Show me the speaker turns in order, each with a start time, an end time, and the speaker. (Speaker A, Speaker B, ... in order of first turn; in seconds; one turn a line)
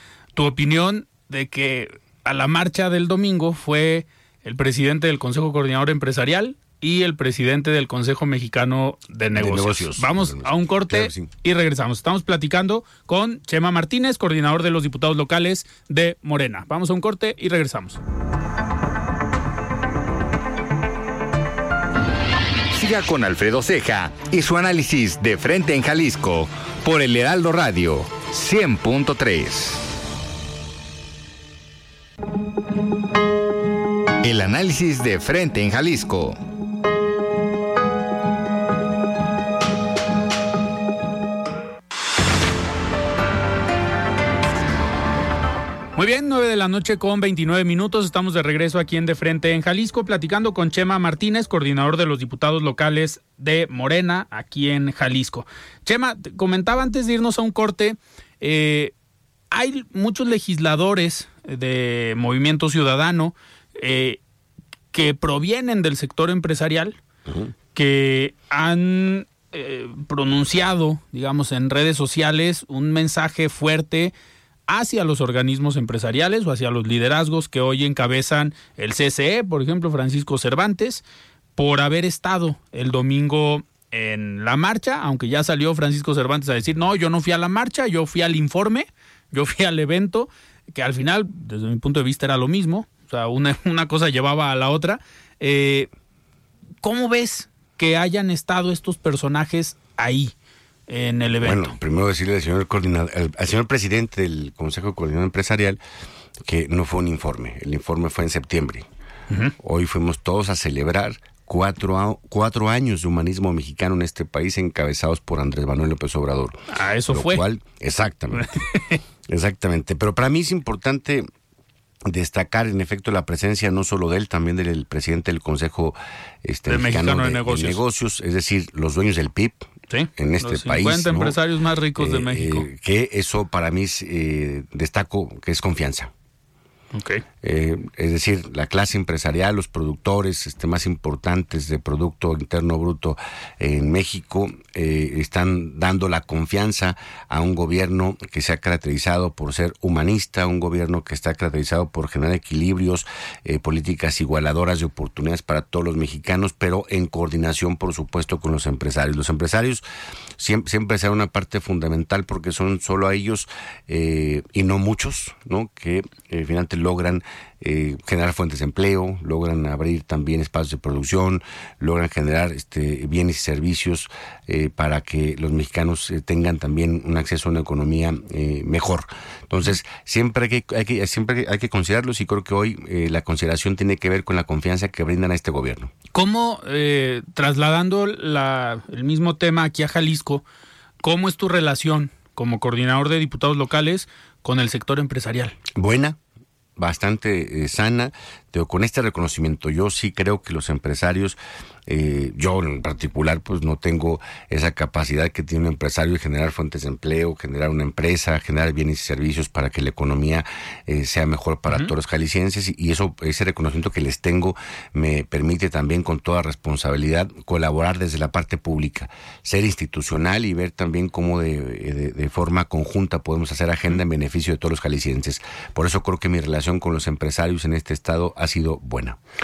Speaker A: 0.4-18.0
Speaker B: 9.4-11.3
Speaker C: 22.7-29.9
Speaker C: 34.2-36.4
Speaker A: 46.0-58.9
Speaker A: 59.5-64.2
Speaker A: 64.9-67.0
Speaker B: 67.3-67.5
Speaker A: 67.8-74.1
Speaker A: 74.7-81.0
Speaker A: 81.6-95.9
Speaker A: 96.8-100.3
Speaker A: 100.9-101.8
Speaker B: 101.4-105.8
Speaker B: 106.4-108.9
Speaker A: 109.3-109.5
Speaker B: 109.6-118.6
Speaker A: 116.7-117.5
Speaker A: 118.3-119.0
Speaker B: 119.3-121.3
Speaker B: 122.1-131.4
Speaker A: 126.7-127.8
Speaker A: 129.9-132.7
Speaker B: 132.0-136.1
Speaker A: 136.9-137.2
Speaker B: 137.4-159.8
Speaker B: 160.4-185.9
Speaker A: 186.1-190.4
Speaker A: 191.0-195.6
Speaker B: 195.8-196.2
Speaker B: 196.8-229.2